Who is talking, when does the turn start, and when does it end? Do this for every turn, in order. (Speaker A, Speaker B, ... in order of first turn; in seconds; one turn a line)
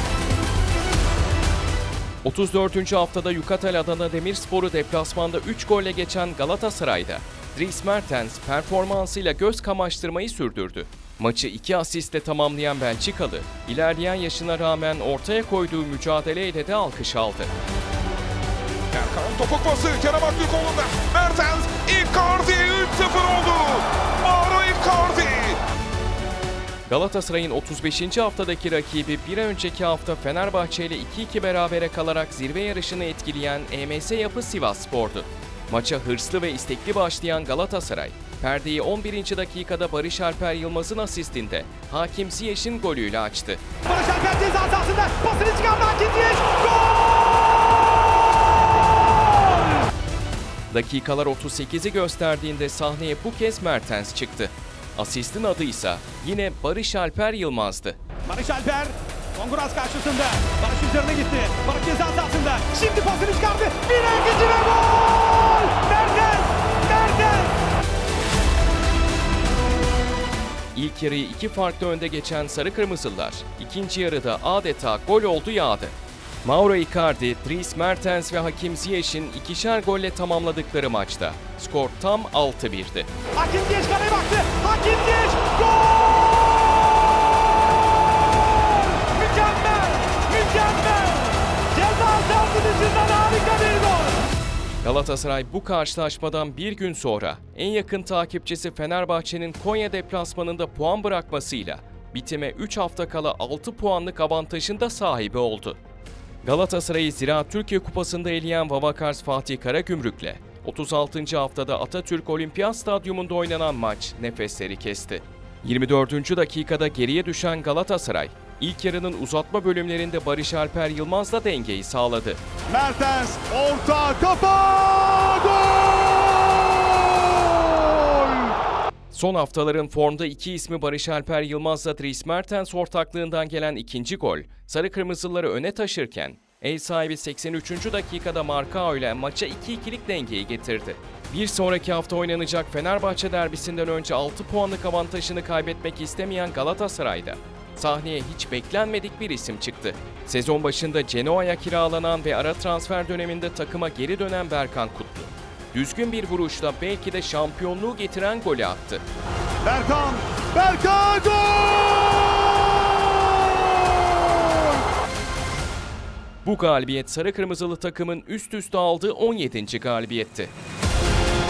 Speaker A: 2.2-17.5
Speaker B: 18.9-25.6
Speaker A: 26.9-43.6
Speaker C: 43.9-48.0
Speaker C: 48.8-49.8
Speaker A: 50.7-58.0
Speaker C: 58.3-67.6
Speaker A: 70.8-83.1
Speaker C: 83.4-87.8
Speaker C: 88.5-94.2
Speaker A: 94.8-105.8
Speaker A: 106.4-122.4
Speaker D: 122.7-128.5
Speaker A: 129.1-159.0
Speaker D: 159.6-164.8
Speaker A: 166.4-170.5